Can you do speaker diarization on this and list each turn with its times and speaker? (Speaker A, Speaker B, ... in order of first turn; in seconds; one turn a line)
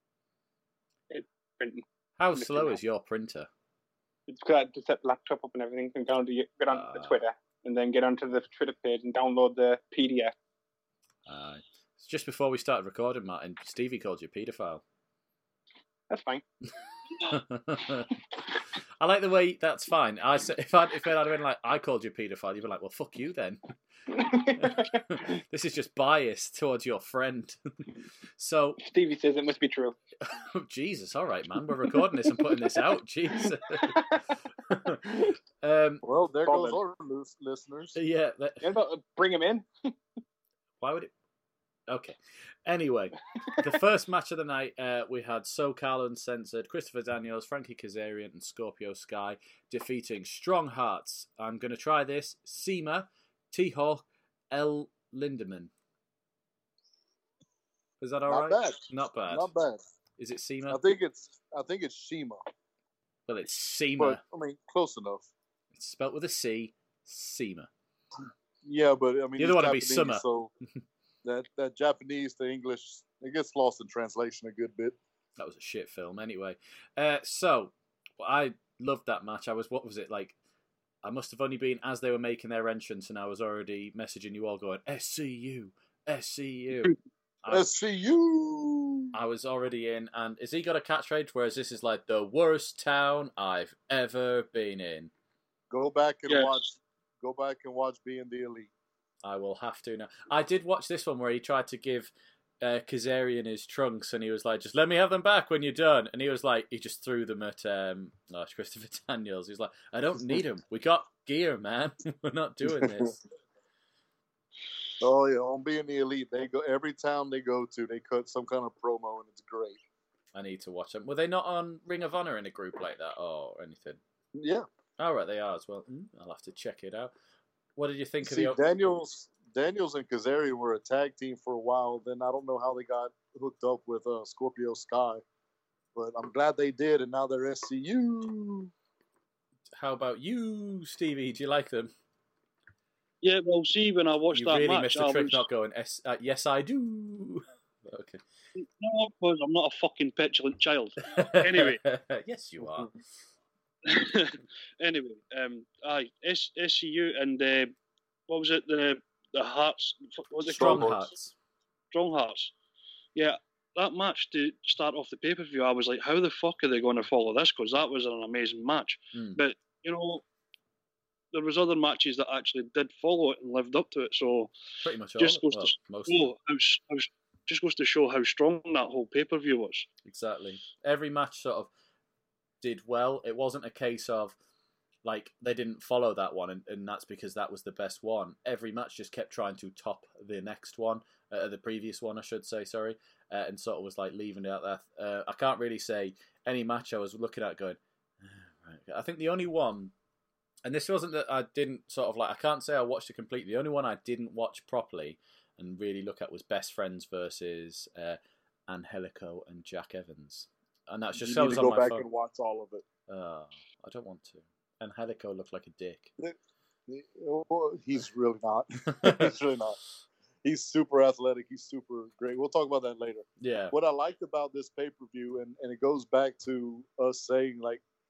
Speaker A: 1.1-1.8
Speaker B: 2.2-3.5
Speaker A: 2.3-2.8
Speaker A: 4.3-10.3
Speaker B: 6.7-7.2
Speaker B: 11.2-14.8
Speaker A: 16.1-16.4
Speaker B: 17.2-18.1
Speaker B: 19.0-23.6
Speaker A: 24.1-25.3
Speaker B: 24.6-27.6
Speaker B: 28.4-28.8
Speaker A: 28.8-29.9
Speaker B: 30.3-35.0
Speaker A: 32.5-32.8
Speaker A: 33.4-34.2
Speaker A: 35.0-35.3
Speaker B: 35.6-36.0
Speaker C: 36.0-38.0
Speaker A: 36.5-36.8
Speaker B: 38.0-38.6
Speaker A: 38.6-39.7
Speaker B: 40.8-41.1
Speaker B: 41.9-55.7
Speaker B: 58.0-59.5
Speaker C: 58.3-59.8
Speaker B: 60.2-60.8
Speaker C: 60.7-62.4
Speaker B: 63.3-64.2
Speaker C: 64.0-65.3
Speaker B: 65.7-67.7
Speaker C: 68.6-70.5
Speaker B: 69.4-70.2
Speaker C: 71.2-75.0
Speaker B: 75.4-80.3
Speaker B: 81.0-87.7
Speaker C: 87.5-89.2
Speaker B: 89.1-95.1
Speaker C: 95.7-98.7
Speaker B: 99.2-113.2
Speaker C: 112.7-113.1
Speaker C: 115.0-119.8
Speaker B: 120.3-124.0
Speaker C: 124.3-124.7
Speaker B: 125.0-127.1
Speaker B: 127.8-128.6
Speaker C: 128.2-135.2
Speaker C: 135.9-138.7
Speaker B: 139.8-141.9
Speaker D: 143.2-145.4
Speaker B: 144.3-148.2
Speaker D: 148.5-151.8
Speaker B: 151.0-153.0
Speaker D: 153.8-157.7
Speaker D: 158.3-160.9
Speaker C: 160.4-161.1
Speaker B: 160.5-161.3
Speaker D: 161.9-162.5
Speaker D: 163.1-170.2
Speaker B: 169.1-169.4
Speaker D: 171.3-174.5
Speaker B: 174.8-176.3
Speaker D: 175.2-179.9
Speaker B: 180.1-181.7
Speaker B: 182.6-184.3
Speaker B: 185.0-199.9
Speaker B: 200.6-212.0
Speaker C: 211.2-212.8
Speaker B: 213.1-216.1
Speaker C: 216.9-219.8
Speaker C: 220.4-227.8
Speaker B: 223.4-223.7